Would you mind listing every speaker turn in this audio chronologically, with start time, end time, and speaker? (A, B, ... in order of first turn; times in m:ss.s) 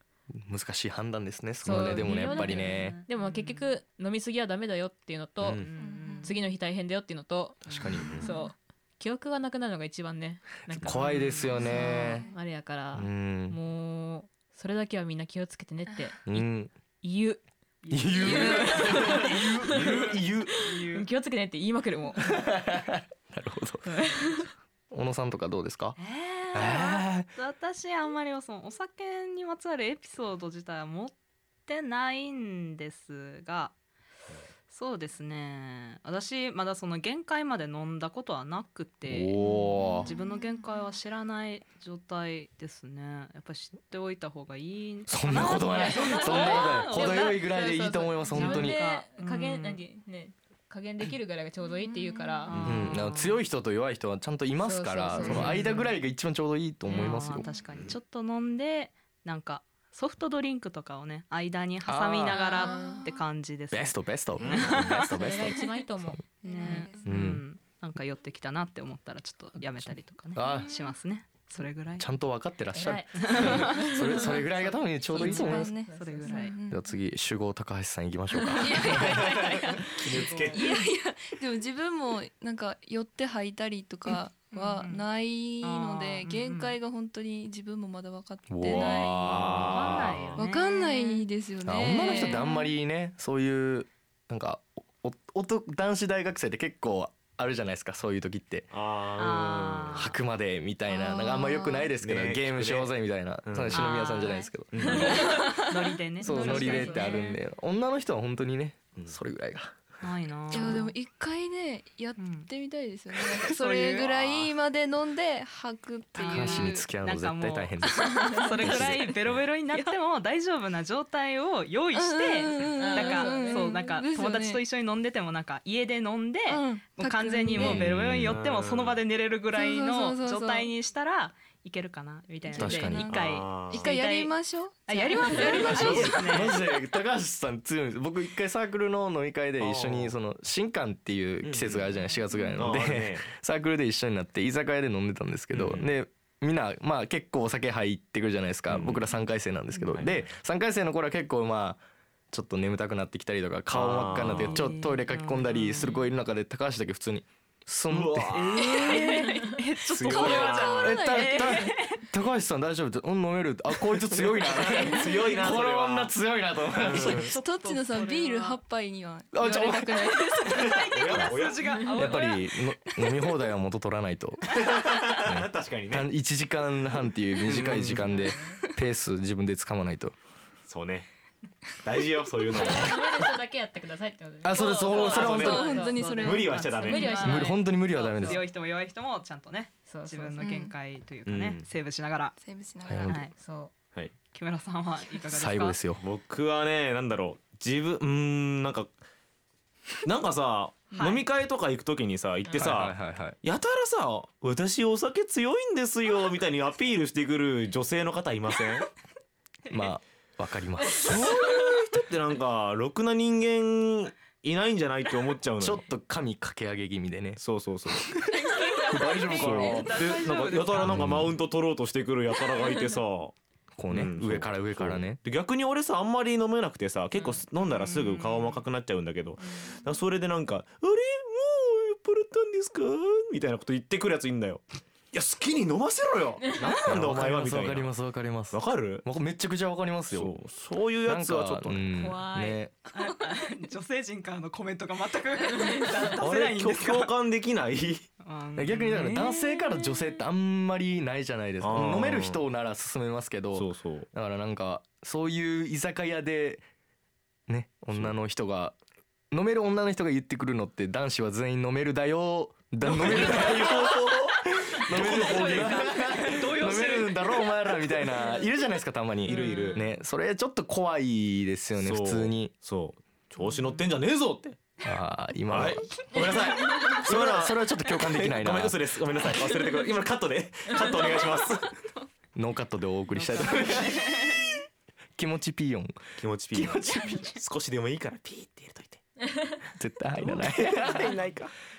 0:00.3-0:03.0 A
0:01.6-0:05.6 B
0:01.7-0:03.7 C
0:05.4-0:05.7 D
0:05.6-0:06.4 C
0:05.8-0:06.4 E
0:06.2-0:07.6 B
0:07.7-0:08.0 C
0:07.7-0:08.2 A
0:08.0-0:08.3 D
0:08.1-0:16.5 B
0:08.2-0:08.5 E
0:10.8-0:12.3 A
0:11.0-0:11.8 C
0:11.5-0:12.4 E
0:12.9-0:13.6 A
0:16.2-0:16.7 A
0:17.0-0:17.4 B
0:17.8-0:21.1 C
0:17.9-0:20.6 A
0:18.1-0:22.5 B
0:22.3-0:24.3 A
0:23.8-0:24.5 B
0:24.9-0:26.0 A
0:26.0-0:31.2 C
0:26.5-0:27.3 A
0:31.7-0:33.7 C
0:34.7-0:47.6 C
0:39.1-0:40.1 A
0:39.9-0:41.0 E
0:45.1-0:48.8 A
0:45.4-0:52.5 B
0:48.3-0:49.8 C
0:51.6-0:52.6 E
0:52.5-0:53.4 C
0:52.5-0:53.0 D
0:52.6-0:57.5 A
0:54.6-0:55.8 B
0:55.2-0:55.7 C
0:56.9-1:05.2 C
0:57.4-0:57.7 E
1:01.8-1:02.6 A
1:02.3-1:03.2 E
1:02.7-1:03.0 B
1:03.7-1:06.2 A
1:04.5-1:04.7 D
1:04.6-1:06.8 B
1:06.4-1:07.1 E
1:06.4-1:12.1 C
1:07.0-1:07.4 A
1:10.3-1:10.7 A
1:10.5-1:10.7 E
1:12.0-1:15.8 A
1:12.7-1:16.5 B
1:13.2-1:14.0 C
1:13.5-1:14.4 E
1:15.1-1:17.0 E
1:15.2-1:16.5 C
1:16.7-1:19.1 A
1:18.5-1:20.7 B
1:18.6-1:29.6 E
1:20.0-1:20.6 D
1:20.0-1:20.3 A
1:24.5-1:25.0 C
1:25.6-1:26.8 C
1:28.5-1:30.1 A
1:28.7-1:30.4 D
1:28.7-1:29.0 C
1:29.7-1:31.2 C
1:30.4-1:32.7 E
1:31.6-1:38.7 A
1:32.0-1:32.4 C
1:38.7-1:40.2 D
1:39.2-1:40.2 C
1:39.9-1:45.6 A
1:40.9-1:41.9 E
1:42.0-1:42.9 D
1:43.4-1:43.9 D
1:43.7-1:47.4 C
1:44.7-1:45.1 D
1:45.2-1:45.7 E
1:46.2-1:49.7 A
1:46.3-1:47.1 B
1:50.0-1:50.9 C
1:50.5-1:56.8 E
1:52.2-1:52.5 C
1:53.5-1:54.4 C
1:56.2-2:14.3 C
1:56.3-1:59.2 A
1:57.9-1:59.1 E
2:01.9-2:04.6 E
2:02.7-2:03.8 B
2:06.5-2:07.9 E
2:07.6-2:08.4 A
2:07.6-2:09.0 D
2:09.5-2:10.7 E
2:12.4-2:16.4 E
2:12.5-2:13.1 A
2:13.1-2:13.9 D
2:14.9-2:16.5 C
2:15.4-2:16.5 D
2:16.3-2:38.8 A
2:19.6-2:20.1 D
2:21.4-2:21.9 D
2:22.6-2:23.3 D
2:25.5-2:25.9 D
2:28.7-2:29.0 D
2:29.9-2:30.3 D
2:33.7-2:34.7 D
2:34.4-2:36.1 C
2:37.9-2:38.8 D
2:38.4-2:42.0 C
2:38.6-2:42.0 E
2:39.9-2:40.9 D
2:40.7-2:47.3 A
2:44.1-2:46.1 D
2:46.7-2:47.3 D
2:47.0-2:48.6 C
2:47.2-2:50.7 E
2:49.3-2:50.3 A
2:49.4-2:50.8 B
2:50.5-2:51.9 D
2:50.6-2:52.6 C
2:51.9-2:54.5 A
2:54.5-2:56.1 D
2:55.2-3:00.1 A
2:57.4-2:58.1 D
2:58.1-2:58.6 B
3:00.7-3:01.1 D
3:01.8-3:03.2 D
3:02.5-3:07.7 B
3:04.4-3:05.8 A
3:04.9-3:07.1 E
3:05.1-3:05.6 D
3:06.2-3:07.2 D
3:06.8-3:12.3 C
3:07.2-3:08.4 A
3:08.2-3:08.4 B
3:09.9-3:10.5 B
3:10.4-3:10.7 E
3:11.2-3:11.6 D
3:12.4-3:13.2 E
3:12.8-3:13.2 A
3:13.0-3:13.3 C
3:13.4-3:13.7 B
3:14.3-3:15.9 C
3:15.3-3:16.0 A
3:16.0-3:18.9 D
3:20.0-3:28.9 D
3:20.9-3:21.2 C
3:22.5-3:23.4 A
3:29.7-3:31.3 A
3:30.9-3:35.8 D
3:35.6-3:37.9 A
3:37.4-3:38.2 D
3:38.3-3:39.8 B
3:38.9-3:39.9 A
3:39.3-3:43.3 D
3:39.3-3:41.0 C
3:40.8-3:41.3 A
3:43.8-3:45.2 A
3:43.9-3:57.9 D
3:47.1-3:48.6 C
3:56.8-4:00.3 A
3:58.5-3:59.0 D
4:00.1-4:02.0 D
4:01.0-4:02.7 A
4:02.0-4:03.4 B
4:02.9-4:07.1 C
4:05.5-4:05.9 B
4:06.2-4:08.1 D
4:08.2-4:10.0 C
4:08.6-4:16.6 A
4:11.6-4:12.4 D
4:13.5-4:14.1 D
4:17.5-4:18.8 A
4:19.3-4:32.5 A
4:22.8-4:24.4 D
4:23.1-4:23.9 C
4:24.9-4:25.9 D
4:24.9-4:28.2 C
4:29.3-4:29.8 D
4:29.3-4:29.8 C
4:31.8-4:34.6 D
4:34.8-4:36.3 A
4:35.5-4:41.7 D
4:37.0-4:38.8 A
4:42.3-4:44.1 A
4:43.1-4:44.3 C
4:45.2-4:46.0 A
4:46.2-4:49.0 D
4:46.5-4:47.3 A
4:49.3-4:49.6 B
4:49.8-4:51.1 A
4:50.2-4:51.5 D